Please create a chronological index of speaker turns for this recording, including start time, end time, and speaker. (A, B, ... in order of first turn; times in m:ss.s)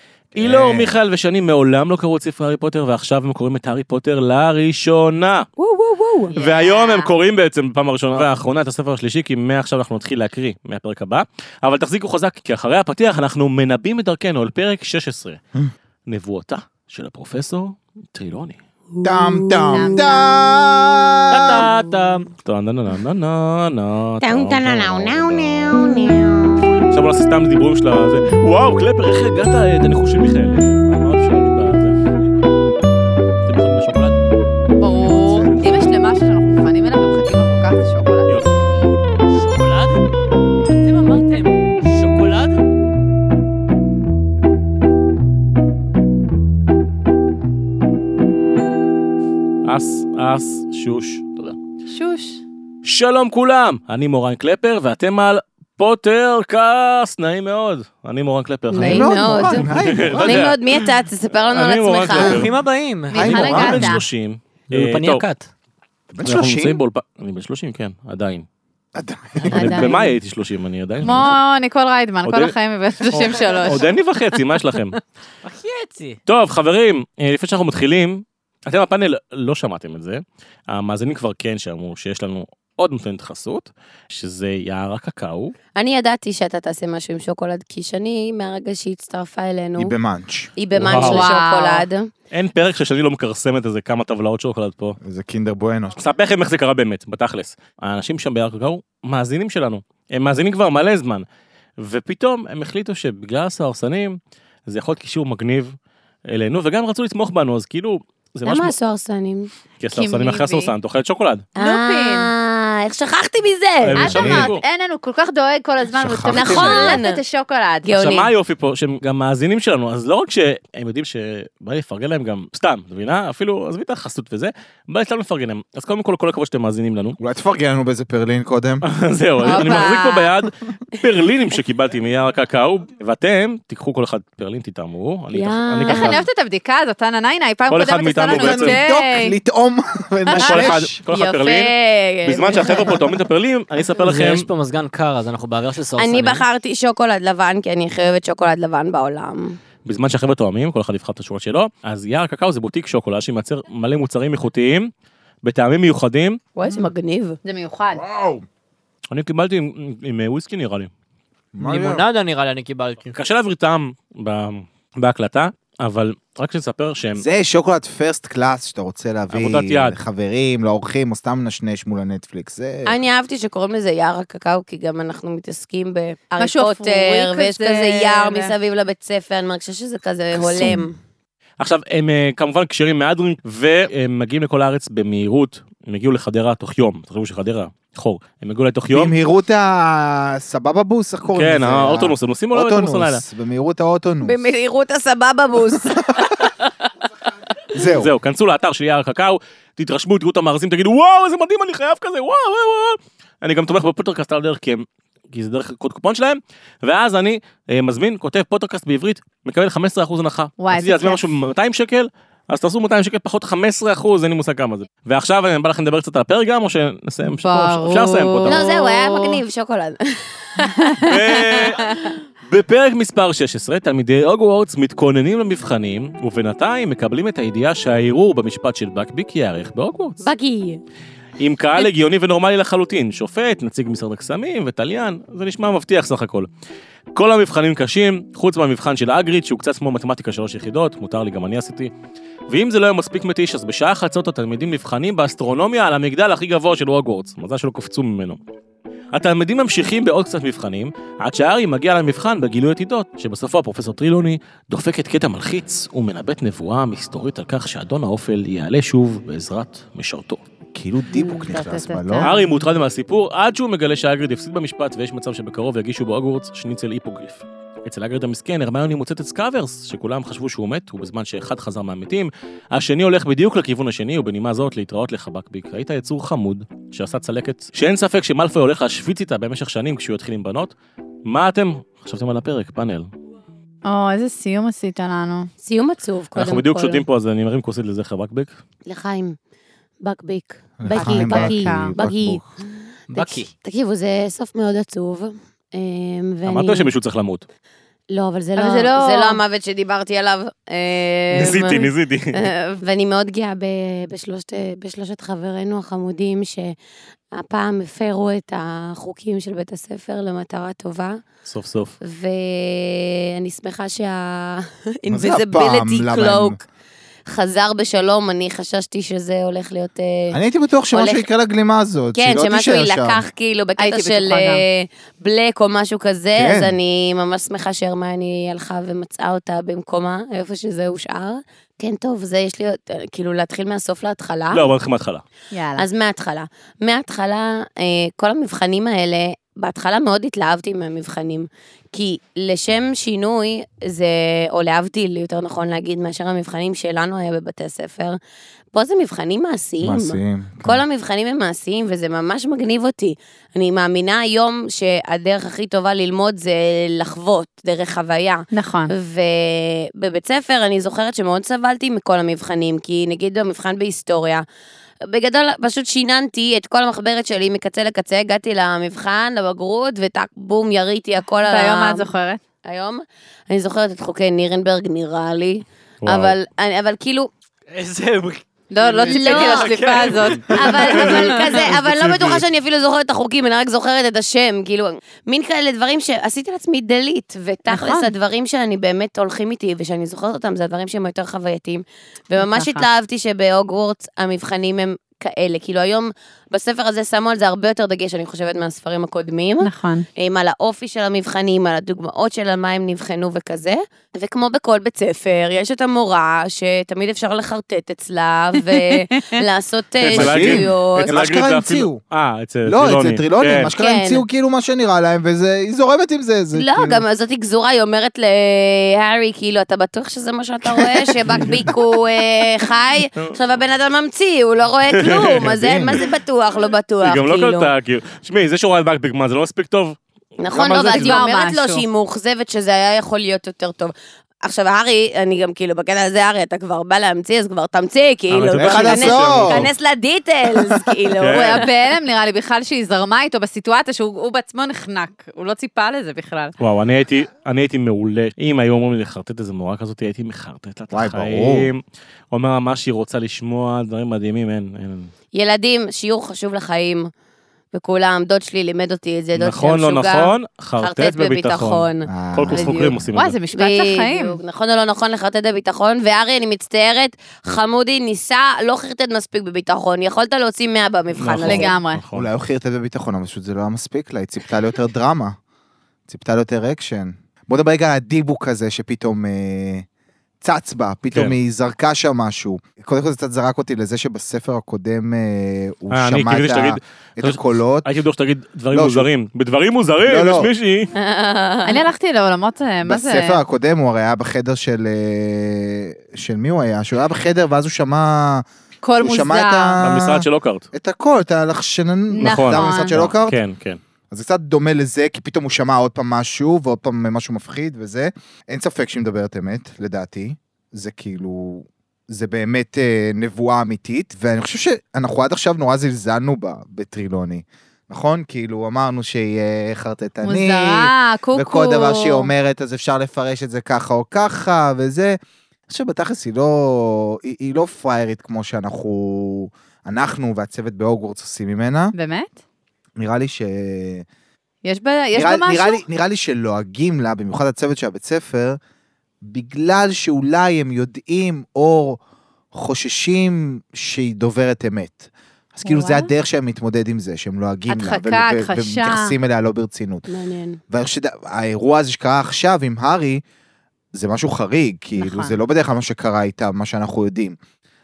0:00.3-0:01.0 A
0:00.4-0:05.5 B
0:05.6-0:06.3 C
0:06.3-0:07.1 D
0:06.3-0:15.4 B
0:16.1-0:18.6 B
0:18.9-0:20.2 C
0:19.0-0:21.7 A
0:19.7-0:20.4 D
0:21.3-0:22.3 E
0:22.4-0:25.8 B
0:24.2-0:26.8 C
0:26.8-0:32.0 B
0:33.4-0:34.2 B
0:34.8-0:38.3 D
0:34.9-0:35.9 A
0:38.3-0:38.5 B
0:39.3-0:40.1 E
0:40.7-0:42.6 E
0:49.6-0:51.6 B
0:51.9-0:52.4 D
0:52.8-1:02.5 B
0:58.7-1:02.4 C
0:58.8-1:00.4 A
1:02.1-1:03.9 E
1:03.1-1:04.0 A
1:03.1-1:04.0 D
1:03.2-1:05.2 B
1:04.7-1:05.5 E
1:06.1-1:06.8 A
1:06.2-1:08.4 B
1:08.9-1:09.9 A
1:09.4-1:10.0 E
1:09.5-1:10.0 C
1:09.5-1:11.4 B
1:11.0-1:13.9 D
1:12.2-1:12.5 B
1:13.1-1:15.0 B
1:15.4-1:16.2 E
1:16.3-1:25.5 B
1:25.8-1:29.9 C
1:29.8-1:30.5 A
1:30.6-1:32.1 C
1:30.7-1:31.3 B
1:30.9-1:31.8 D
1:32.3-1:35.0 B
1:35.0-1:36.0 A
1:36.0-1:41.2 B
1:41.8-1:48.7 B
1:48.4-1:49.5 C
1:49.8-1:51.5 B
1:49.9-1:50.7 D
1:51.6-1:54.1 C
1:51.6-1:52.3 D
1:53.8-1:54.6 B
1:54.0-1:58.0 D
1:54.0-1:54.5 A
1:55.9-1:57.0 A
1:56.3-1:57.2 C
1:57.8-1:58.3 C
1:58.0-2:07.2 B
2:07.2-2:08.8 A
2:08.8-2:16.2 B
2:09.4-2:10.3 D
2:09.5-2:09.9 C
2:15.3-2:16.2 C
2:15.9-2:19.4 D
2:17.7-2:18.8 B
2:18.2-2:21.0 A
2:20.3-2:21.7 B
2:20.5-2:23.0 C
2:22.2-2:24.5 B
2:24.0-2:26.4 E
2:26.0-2:29.6 C
2:29.8-2:34.9 B
2:35.4-2:36.4 B
2:36.6-2:37.4 C
2:37.4-2:38.0 D
2:37.9-2:38.4 A
2:39.1-2:40.9 B
2:41.5-2:42.0 A
2:41.6-2:43.1 E
2:43.1-2:47.2 B
2:47.2-2:53.0 A
2:49.3-2:50.0 B
2:52.8-3:01.0 C
2:56.4-2:58.5 D
3:00.3-3:00.9 A
3:01.6-3:09.1 B
3:08.9-3:14.4 A
3:11.3-3:13.2 B
3:14.2-3:16.5 C
3:17.7-3:18.1 A
3:17.8-3:38.6 B
3:30.6-3:31.2 D
3:37.4-3:39.4 D
3:38.5-3:42.1 C
3:40.6-3:42.1 D
3:41.0-3:41.8 B
3:42.4-3:50.3 B
3:50.2-3:50.8 C
3:51.4-3:56.5 B
3:57.1-4:01.9 B
4:02.5-4:08.4 B
4:09.1-4:20.4 B
4:20.7-4:22.3 A
4:21.2-4:22.6 D
4:22.2-4:40.7 B
4:41.2-4:43.1 B
4:43.8-4:45.5 D
4:45.6-4:47.0 C
4:46.3-4:48.6 B
4:48.8-4:49.4 C
4:50.0-4:52.4 C
4:50.8-4:52.4 A
4:50.9-4:52.0 D
4:53.1-4:53.5 E
4:53.1-4:56.9 C
4:56.4-4:57.4 B
4:58.1-5:06.8 C
4:58.6-4:59.4 D
5:01.3-5:02.4 B
5:07.3-5:11.2 C
5:11.4-5:12.0 B
5:12.0-5:16.6 C
5:15.1-5:16.6 A
5:17.3-5:20.4 C
5:20.3-5:23.2 A
5:20.9-5:21.2 C
5:22.1-5:34.7 C
5:23.8-5:24.6 D
5:26.3-5:26.8 A
5:34.5-5:35.2 B
5:35.5-5:35.8 D
5:35.7-5:48.2 C
5:48.7-6:04.4 C
5:49.8-5:50.8 A
5:58.5-5:58.9 D
6:05.0-6:12.1 C
6:11.5-6:12.4 D
6:12.6-6:17.3 C
6:16.0-6:16.3 B
6:17.7-6:21.6 E
6:18.7-6:21.4 D
6:19.1-6:19.7 C
6:20.5-6:51.1 C
6:20.9-6:22.4 B
6:27.7-6:28.1 D
6:32.4-6:32.8 D
6:39.6-6:40.1 D
6:48.7-6:49.0 D
6:50.0-6:53.7 B
6:50.1-6:52.0 A
6:52.6-6:57.0 A
6:53.7-6:54.2 C
6:56.5-7:07.7 C
7:00.6-7:01.7 A
7:04.9-7:05.5 B
7:05.3-7:06.0 A
7:07.0-7:11.2 B
7:10.4-7:21.7 C
7:10.8-7:11.8 D
7:18.3-7:19.7 B
7:18.6-7:19.7 A
7:21.2-7:21.6 B
7:21.3-7:26.5 D
7:26.6-7:31.8 B
7:30.9-7:31.7 A
7:32.3-7:35.1 B
7:35.3-7:37.1 C
7:37.7-7:42.1 C
7:39.4-7:43.4 B
7:42.0-7:43.1 A
7:42.5-7:44.4 D
7:43.5-7:51.8 C
7:51.2-7:52.3 B
7:51.4-7:52.0 D
7:52.1-7:55.4 A
7:56.1-7:59.8 A
8:00.4-8:07.9 A
8:01.1-8:01.4 B
8:05.9-8:10.9 B
8:08.7-8:09.1 A
8:10.0-8:10.5 A
8:10.9-8:11.9 C
8:11.6-8:13.4 D
8:12.8-8:18.4 A
8:18.8-8:20.0 D
8:19.0-8:23.4 A
8:19.8-8:20.7 B
8:22.1-8:23.0 D
8:22.2-8:23.8 B
8:24.1-8:45.2 A
8:40.2-8:42.3 D
8:45.7-8:51.9 A
8:51.9-8:52.3 D
8:53.0-8:54.0 A
8:54.6-8:55.8 D
8:55.1-8:58.6 A
8:59.2-9:02.0 A
9:02.5-9:10.0 A
9:05.6-9:06.1 D
9:07.7-9:09.1 D
9:10.1-9:10.6 C
9:10.7-9:13.2 A
9:13.9-9:17.4 A
9:15.0-9:15.4 D